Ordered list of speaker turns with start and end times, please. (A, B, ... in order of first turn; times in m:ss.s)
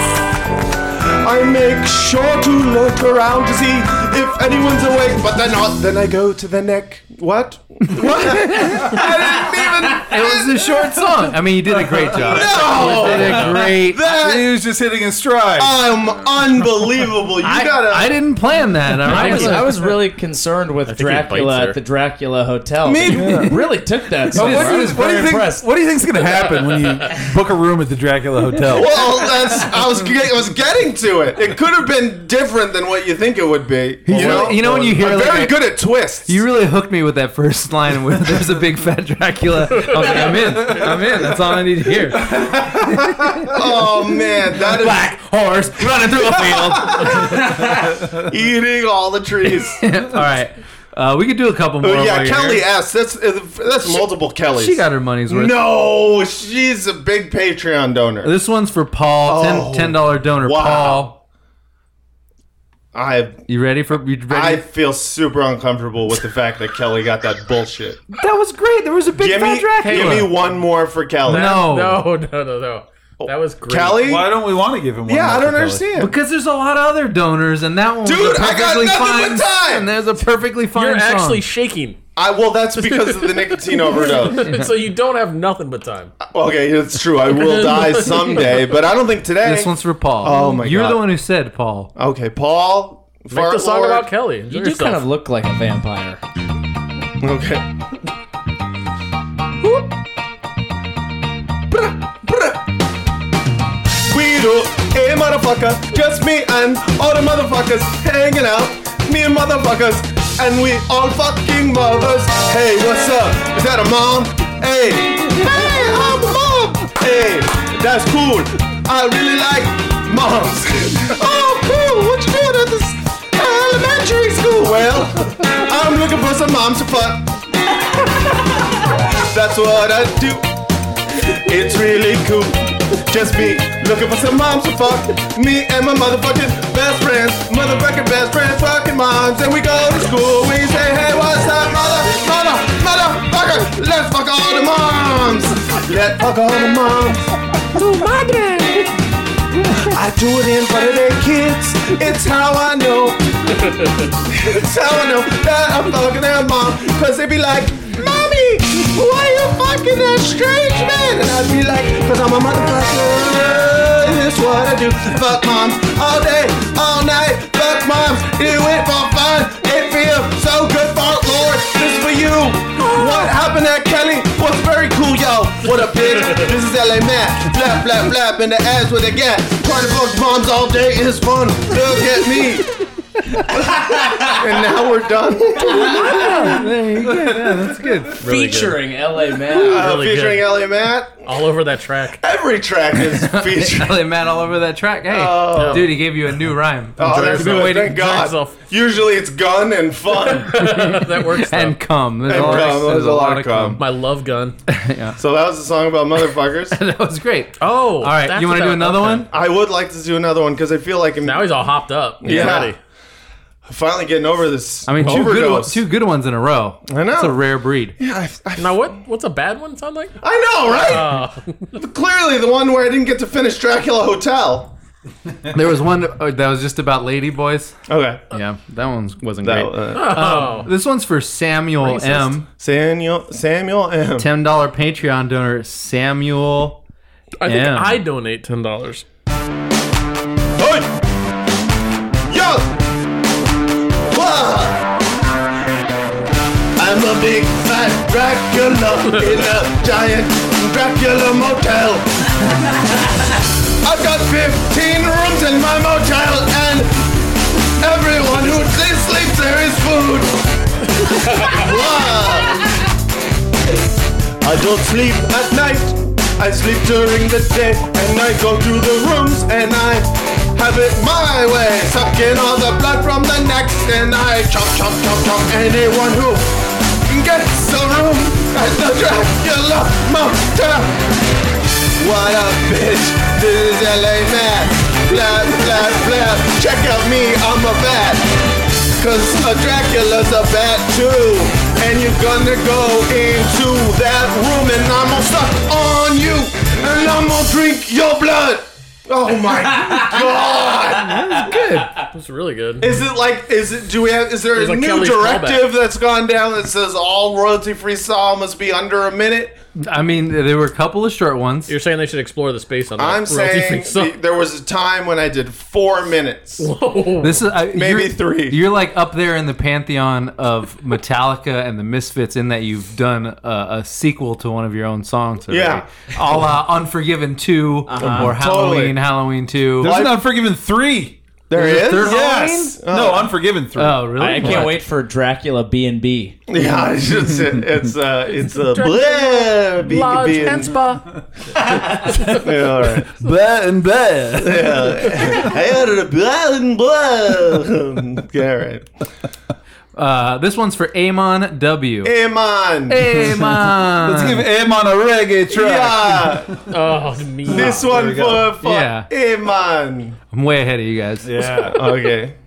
0:01.2-0:10.5 A
0:08.0-0:08.9 B
0:10.0-0:14.0 B
0:12.2-0:14.5 A
0:12.5-0:12.9 C
0:14.0-0:15.8 C
0:15.6-0:18.1 A
0:17.4-0:19.7 B
0:19.1-0:25.7 D
0:19.1-0:19.9 E
0:20.9-0:21.8 E
0:22.8-0:23.5 A
0:23.1-0:23.5 C
0:23.1-0:23.6 B
0:24.3-0:28.9 C
0:24.3-0:24.9 B
0:28.7-0:36.4 A
0:34.0-0:35.7 B
0:36.2-0:43.5 B
0:39.9-0:40.8 E
0:42.3-0:43.2 C
0:43.5-0:45.1 A
0:44.8-0:47.3 B
0:46.3-0:49.8 A
0:49.8-0:52.7 B
0:51.8-0:58.4 A
0:54.5-0:55.6 B
0:58.2-1:01.2 B
0:59.2-1:01.1 A
1:02.9-1:03.4 A
1:03.5-1:04.6 B
1:04.3-1:08.0 A
1:08.1-1:10.4 B
1:09.2-1:11.6 A
1:11.3-1:14.1 E
1:11.3-1:12.0 B
1:13.2-1:14.3 A
1:14.0-1:15.9 C
1:15.1-1:16.1 A
1:16.0-1:21.4 B
1:18.0-1:19.9 A
1:20.8-1:22.0 E
1:22.2-1:24.5 A
1:22.8-1:26.2 E
1:24.4-1:24.7 B
1:26.3-1:31.1 A
1:27.3-1:28.8 E
1:29.4-1:31.9 B
1:32.0-1:34.1 A
1:33.3-1:35.0 E
1:34.5-1:36.2 D
1:37.2-1:37.6 A
1:41.7-1:42.6 A
1:44.1-2:08.1 A
2:09.2-2:10.5 A
2:11.4-2:27.2 A
2:27.8-2:28.9 E
2:29.8-2:33.5 A
2:34.3-3:02.7 A
3:03.6-3:06.4 A
3:03.8-3:04.3 D
3:05.6-3:08.2 B
3:05.7-3:06.0 D
3:07.1-3:07.9 C
3:08.2-3:08.8 E
3:08.2-3:09.9 D
3:09.5-3:11.2 A
3:09.6-3:10.6 E
3:11.3-3:12.2 E
3:12.2-3:14.0 A
3:13.1-3:18.3 B
3:15.1-3:16.0 A
3:15.6-3:15.9 E
3:17.0-3:20.6 A
3:17.0-3:18.6 E
3:20.2-3:22.8 E
3:20.5-3:23.8 B
3:22.3-3:23.8 A
3:23.8-3:24.6 E
3:24.7-3:25.2 B
3:25.2-3:26.8 A
3:26.7-3:29.3 B
3:27.6-3:29.3 E
3:29.3-3:31.6 A
3:31.2-3:32.8 E
3:32.2-3:32.8 A
3:32.3-3:32.7 B
3:33.7-3:35.8 A
3:34.9-3:38.0 B
3:36.9-3:37.4 A
3:38.0-3:38.9 A
3:38.6-3:40.2 E
3:40.2-3:41.2 A
3:40.7-3:41.7 E
3:41.8-3:44.7 A
3:45.5-3:47.7 B
3:47.9-3:48.2 A
3:48.3-3:52.5 B
3:49.4-3:50.6 A
3:49.9-3:50.7 E
3:51.8-3:52.4 E
3:52.6-3:54.3 A
3:54.2-3:56.8 B
3:57.4-3:59.0 E
3:57.4-3:58.0 B
4:00.6-4:00.9 A
4:02.3-4:02.7 A
4:04.1-4:04.8 A
4:06.8-4:12.1 A
4:13.8-4:17.1 A
4:17.8-4:20.4 A
4:21.0-4:22.6 A
4:24.4-4:36.5 A
4:37.1-4:41.0 A
4:42.0-4:48.3 A
4:49.0-5:01.2 A
5:00.9-5:02.0 B
5:02.1-5:02.9 E
5:02.8-5:09.6 A
5:04.6-5:05.7 E
5:09.8-5:11.8 B
5:11.7-5:14.2 E
5:13.0-5:16.7 A
5:16.6-5:17.4 E
5:17.2-5:30.0 B
5:17.7-5:18.6 A
5:25.5-5:25.8 A
5:27.9-5:28.4 D
5:28.0-5:29.0 A
5:29.8-5:31.2 C
5:29.8-5:30.2 A
5:31.5-5:33.4 A
5:31.5-5:32.8 B
5:32.0-5:34.1 C
5:33.8-5:34.8 B
5:34.2-5:36.4 D
5:36.5-5:40.8 A
5:38.7-5:42.4 E
5:41.7-5:42.4 C
5:42.3-5:43.1 A
5:43.1-5:45.3 C
5:44.4-5:48.9 A
5:50.0-5:52.1 B
5:52.0-5:53.0 A
5:52.9-5:54.5 B
5:53.1-5:56.7 C
5:55.5-5:56.6 A
5:56.7-5:57.9 E
5:57.5-5:58.5 C
5:57.5-6:00.2 A
5:58.6-5:59.1 B
6:00.3-6:01.4 B
6:01.2-6:02.1 C
6:01.6-6:02.3 A